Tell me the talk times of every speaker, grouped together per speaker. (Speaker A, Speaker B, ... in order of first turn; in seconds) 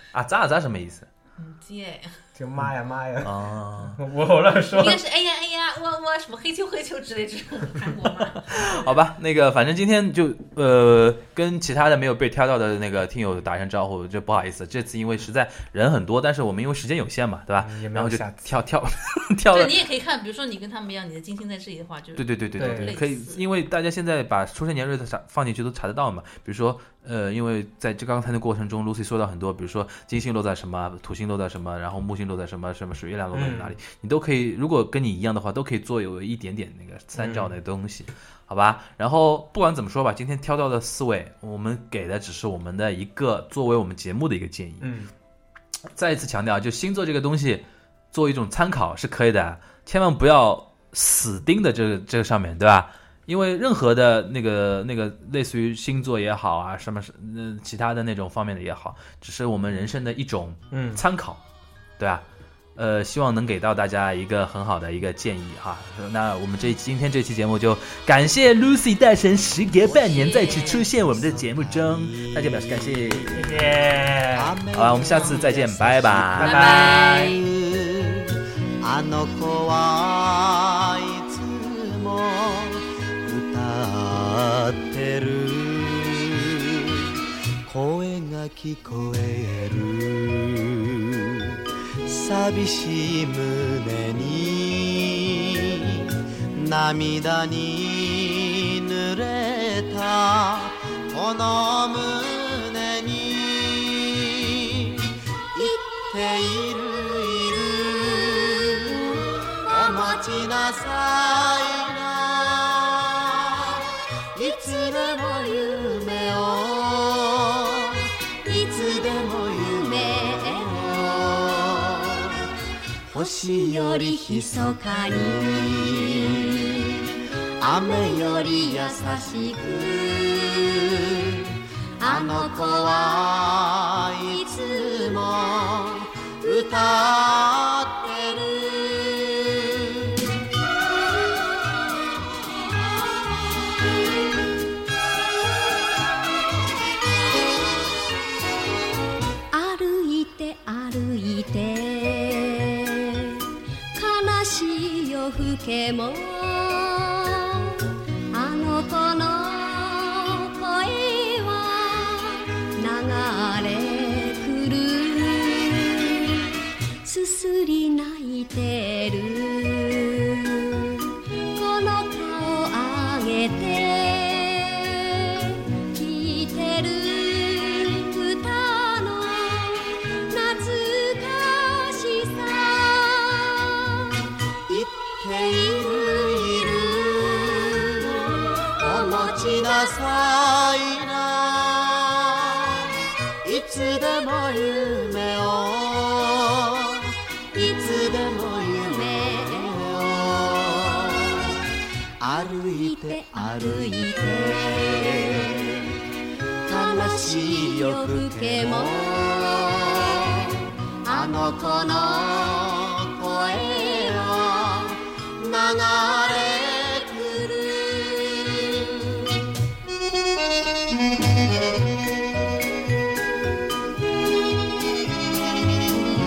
Speaker A: 0.1-1.1, 3.2-4.0, 8.4-19.8, 22.2-44.9, 45.9-61.4, 62.0-62.2, 62.8-73.4, 74.7-76.8
Speaker B: 1.4-2.2, 4.7-8.9, 19.5-23.4, 69.9-70.8, 76.4-77.3
Speaker C: 2.4-5.0, 17.6-18.5, 22.6-22.9, 33.3-33.8, 37.1-37.5, 44.8-45.1, 60.7-61.0, 73.3-74.5, 76.3-77.4
Speaker D: 69.8-122.5, 123.1-127.0, 127.6-140.2, 184.7-201.7, 202.2-206.0, 206.7-219.3
Speaker E: 105.6-105.9, 109.7-110.2, 119.8-120.8, 123.2-126.3, 127.6-129.8, 132.0-133.2, 134.4-135.0, 149.5-153.4, 153.9-157.8, 158.3-166.4, 167.0-170.6, 171.6-183.4, 188.8-189.5, 199.0-199.5, 202.7-204.7, 206.7-209.6, 211.1-212.3, 213.4-213.7, 217.5-218.2